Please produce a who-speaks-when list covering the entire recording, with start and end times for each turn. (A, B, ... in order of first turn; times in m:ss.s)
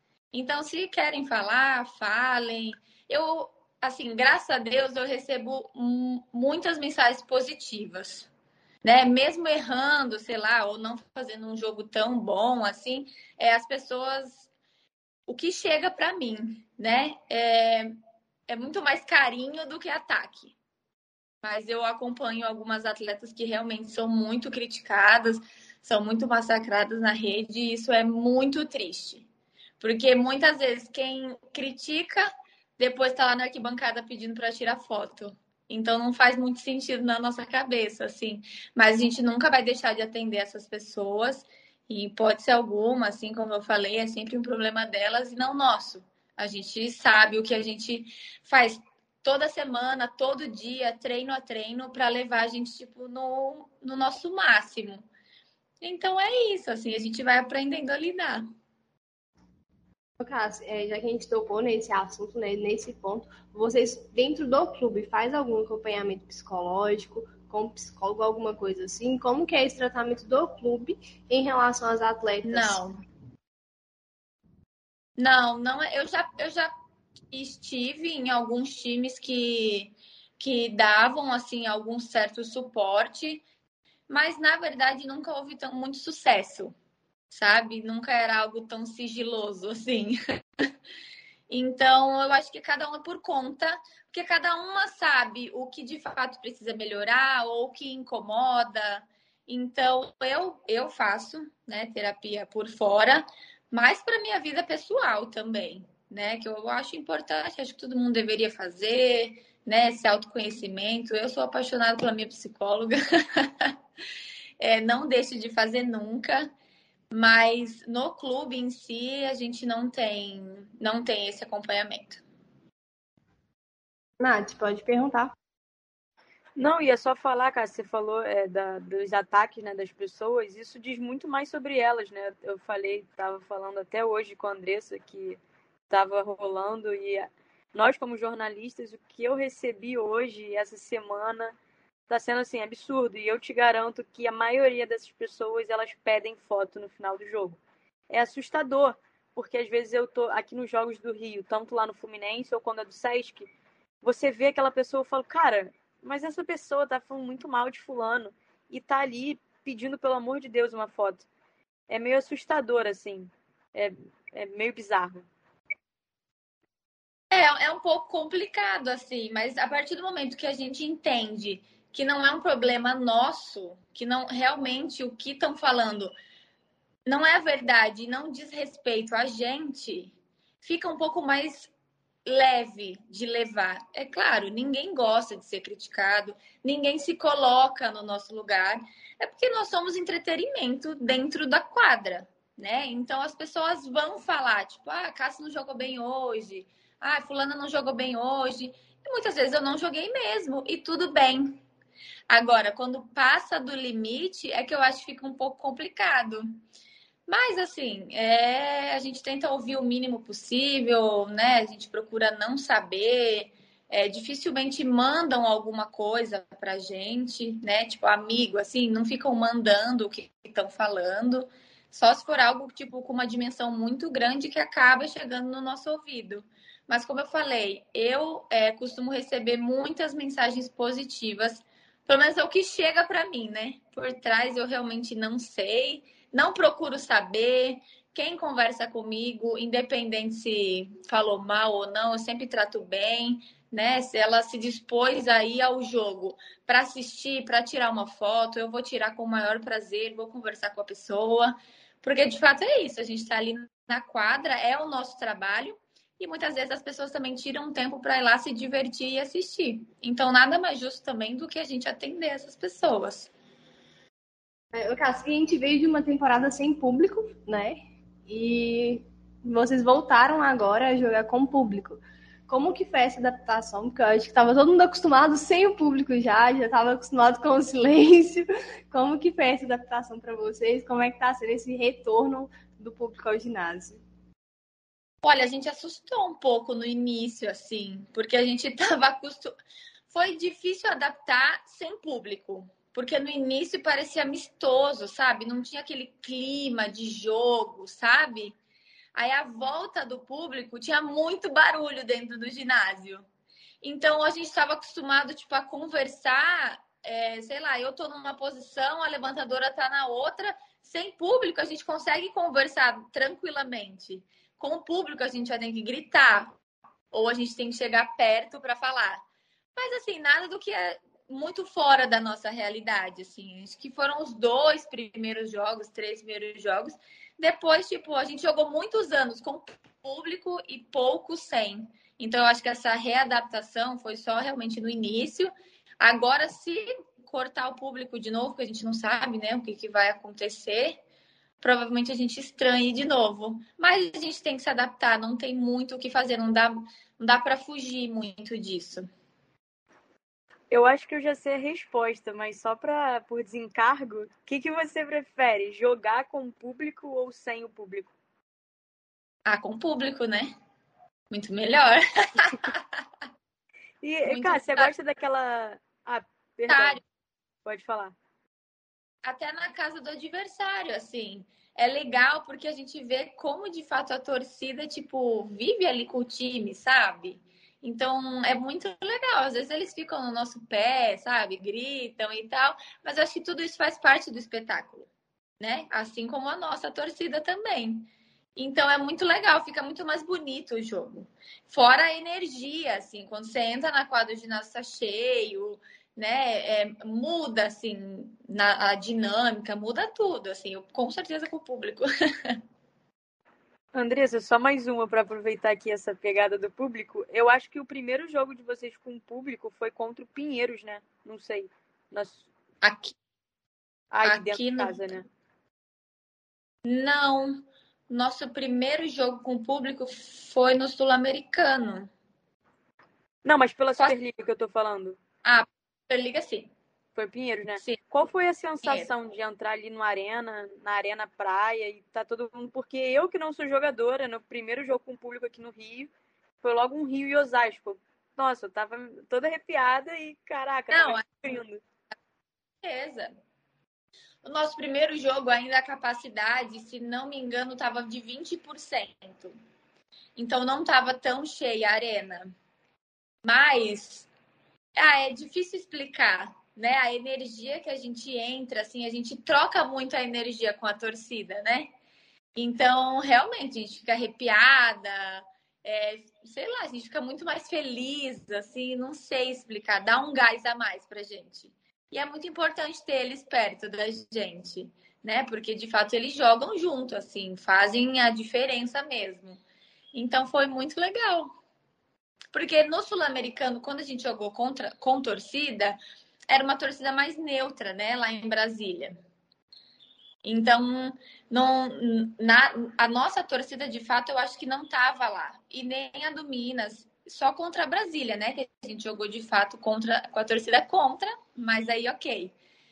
0:00.3-0:08.3 A
0:08.8-0:14.5 A
0:15.3-0:18.0 A
0:18.5-0:20.5 A
0:21.4-0:29.3 A
0:29.8-0:55.0 A
0:55.8-0:58.4 A
1:00.2-1:12.8 B
1:12.4-1:13.0 A
1:15.2-1:16.7 A
1:17.3-1:23.4 A
1:24.1-1:26.7 A
1:27.3-1:30.2 A
1:31.5-1:53.7 A
1:54.6-1:56.5 A
1:57.1-2:02.2 A
2:04.2-2:05.3 B
2:06.6-2:15.4 C
2:15.9-2:21.6 C
2:22.1-2:33.5 C
2:34.0-2:41.2 C
2:41.9-2:45.2 C
2:47.3-2:56.1 A
2:57.0-3:01.7 A
3:02.2-3:21.6 A
3:22.3-3:26.6 A
3:27.3-4:23.3 A
4:24.7-4:44.0 B
4:45.2-4:49.5 A
4:50.1-4:58.6 A
4:59.1-5:03.2 A
5:03.8-5:16.5 A
5:17.1-5:19.2 A
5:19.8-5:41.0 A
5:41.6-5:49.1 A
5:50.7-5:58.1 C
5:59.4-6:00.5 A
6:01.3-6:02.8 A
6:04.0-6:07.0 C
6:04.2-6:04.9 A
6:06.7-6:07.0 A
6:07.6-6:08.1 C
6:09.2-6:25.1 A
6:25.6-6:42.6 A
6:43.9-6:52.4 C
6:52.8-6:53.1 A
6:54.1-6:55.2 C
6:54.2-6:55.0 A
6:56.8-7:02.1 A
7:03.4-7:05.2 C
7:05.4-7:06.7 A
7:07.1-7:16.1 C
7:08.8-7:09.1 A
7:16.6-7:21.8 C
7:20.9-7:21.2 A
7:22.8-7:23.3 A
7:24.4-7:29.5 A
7:30.4-7:32.5 A
7:33.4-7:34.3 A
7:35.0-7:41.9 A
7:42.5-7:59.6 A
8:00.1-8:01.5 A
8:02.5-8:06.0 A
8:06.5-8:09.2 A
8:10.4-8:22.5 A